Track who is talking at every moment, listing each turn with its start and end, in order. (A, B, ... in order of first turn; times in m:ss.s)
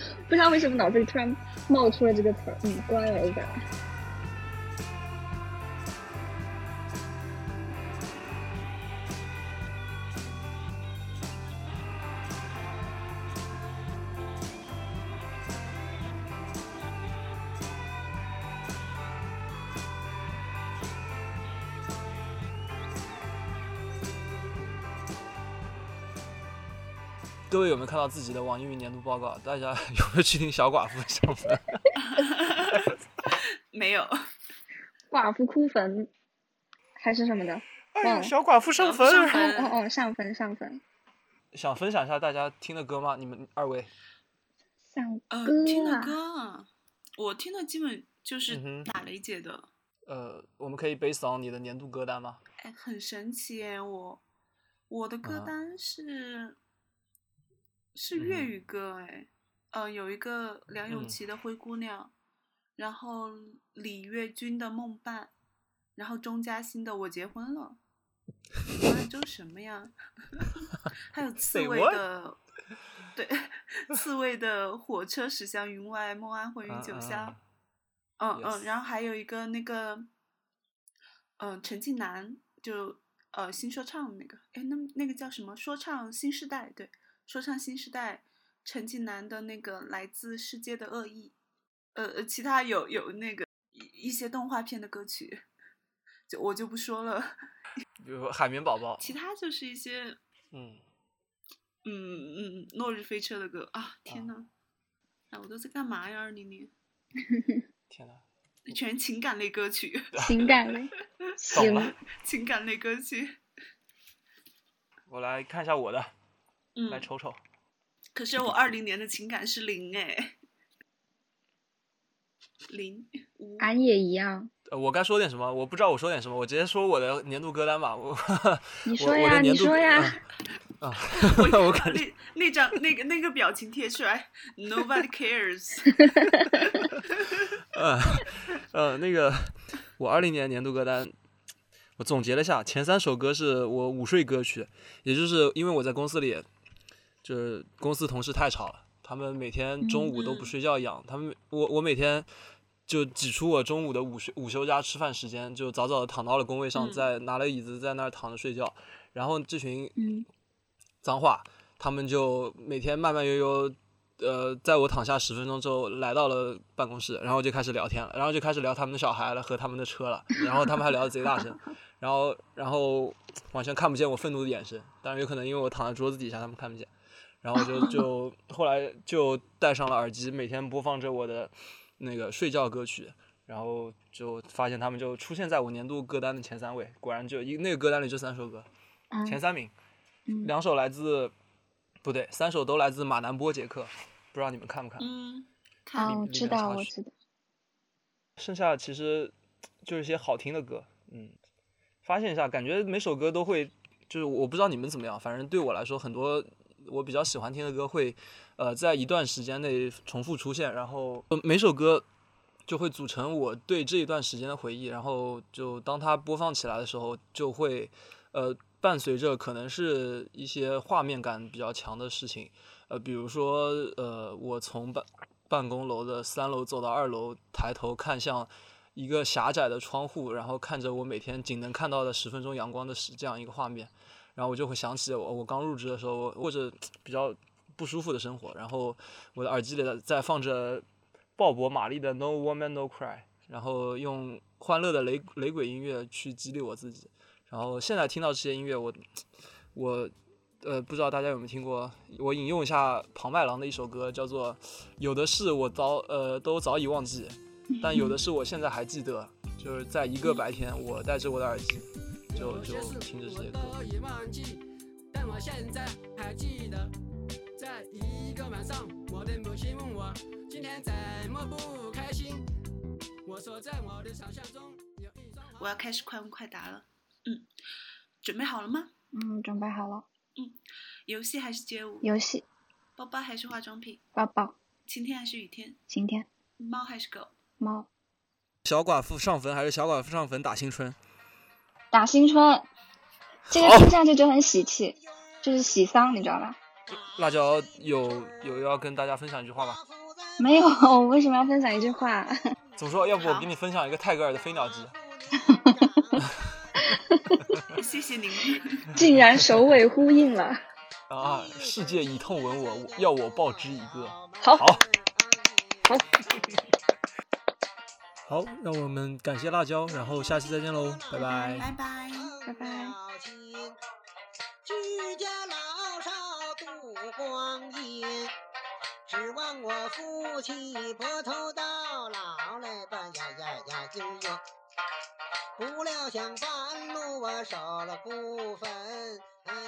0:00.3-0:03.6 A
0:27.5-0:31.9 B
0:32.0-0:34.1 C
0:32.7-0:33.0 B
0:35.1-0:36.1 A
0:37.0-0:38.3 A
0:37.9-0:39.5 B
0:38.8-0:39.8 C
0:39.2-0:40.8 A
0:41.5-0:43.9 B
0:44.9-0:46.2 A
0:45.3-0:49.7 C
0:48.5-0:48.9 B
0:50.0-0:52.4 B
0:52.6-0:54.2 C
0:54.9-0:56.6 C
0:55.2-0:55.5 B
0:57.9-1:02.1 C
0:58.1-0:58.5 B
1:00.9-1:01.2 B
1:02.8-1:05.3 C
1:06.0-1:07.8 C
1:08.8-1:12.4 C
1:11.5-1:12.0 B
1:13.1-1:17.4 C
1:16.7-1:17.4 B
1:18.2-1:20.1 C
1:18.4-1:18.6 B
1:21.4-1:31.3 C
1:31.9-1:35.4 C
1:36.3-1:37.4 C
1:38.0-1:39.1 B
1:39.0-1:40.2 C
1:40.5-1:40.8 B
1:41.8-1:44.5 C
1:45.3-1:46.7 C
1:47.3-1:47.6 A
1:47.9-1:48.2 B
1:48.7-1:50.1 C
1:50.1-1:50.4 B
1:50.2-1:51.9 A
1:51.5-1:53.4 C
1:51.5-1:51.9 B
1:55.1-1:56.1 B
1:56.8-1:57.1 C
1:56.9-1:57.4 B
1:58.1-2:00.4 C
2:02.7-2:03.7 C
2:03.6-2:04.5 A
2:04.7-2:10.2 B
2:08.8-2:10.2 A
2:10.8-2:12.0 B
2:11.2-2:16.3 C
2:16.8-2:17.2 C
2:17.7-2:21.1 B
2:22.0-2:26.4 B
2:27.2-2:32.3 B
2:29.8-2:30.1 A
2:30.1-2:30.5 C
2:32.9-2:40.0 B
2:36.8-2:37.1 C
2:40.0-2:40.3 A
2:41.0-2:56.9 B
2:57.4-3:08.7 B
2:57.8-2:58.0 A
3:09.1-3:09.4 A
3:09.2-3:09.7 B
3:10.4-3:11.3 B
3:12.0-3:15.1 B
3:15.0-3:16.2 C
3:16.0-3:17.1 A
3:16.0-3:16.9 B
3:18.4-3:21.4 B
3:22.0-3:32.0 B
3:32.7-4:00.8 B
4:01.4-4:09.0 B
4:09.7-4:23.8 B
4:17.7-4:18.2 A
4:22.3-4:26.9 D
4:27.6-4:32.4 D
4:33.2-4:35.8 D
4:35.6-4:37.5 C
4:38.2-4:38.9 C
4:39.1-4:40.0 A
4:40.4-4:42.1 C
4:42.0-4:42.4 A
4:43.0-4:44.0 C
4:44.1-4:44.6 A
4:44.9-4:45.8 C
4:45.9-4:46.3 A
4:46.6-4:47.3 C
4:47.6-4:47.9 A
4:48.6-4:51.0 B
4:51.9-4:52.7 A
4:53.5-4:54.0 B
4:53.5-4:56.6 A
4:56.9-4:59.9 B
5:00.4-5:02.3 A
5:02.8-5:05.0 B
5:03.2-5:03.5 C
5:05.3-5:06.2 A
5:06.8-5:07.6 A
5:07.5-5:07.8 B
5:07.7-5:08.9 C
5:08.9-5:10.6 A
5:08.9-5:09.7 B
5:11.1-5:14.9 B
5:14.4-5:14.7 A
5:15.8-5:16.2 A
5:18.2-5:21.7 B
5:21.5-5:22.4 C
5:22.4-5:23.0 A
5:24.7-5:26.5 E
5:27.8-5:28.0 E
5:29.1-5:30.2 E
5:32.7-5:34.2 E
5:35.6-5:38.6 E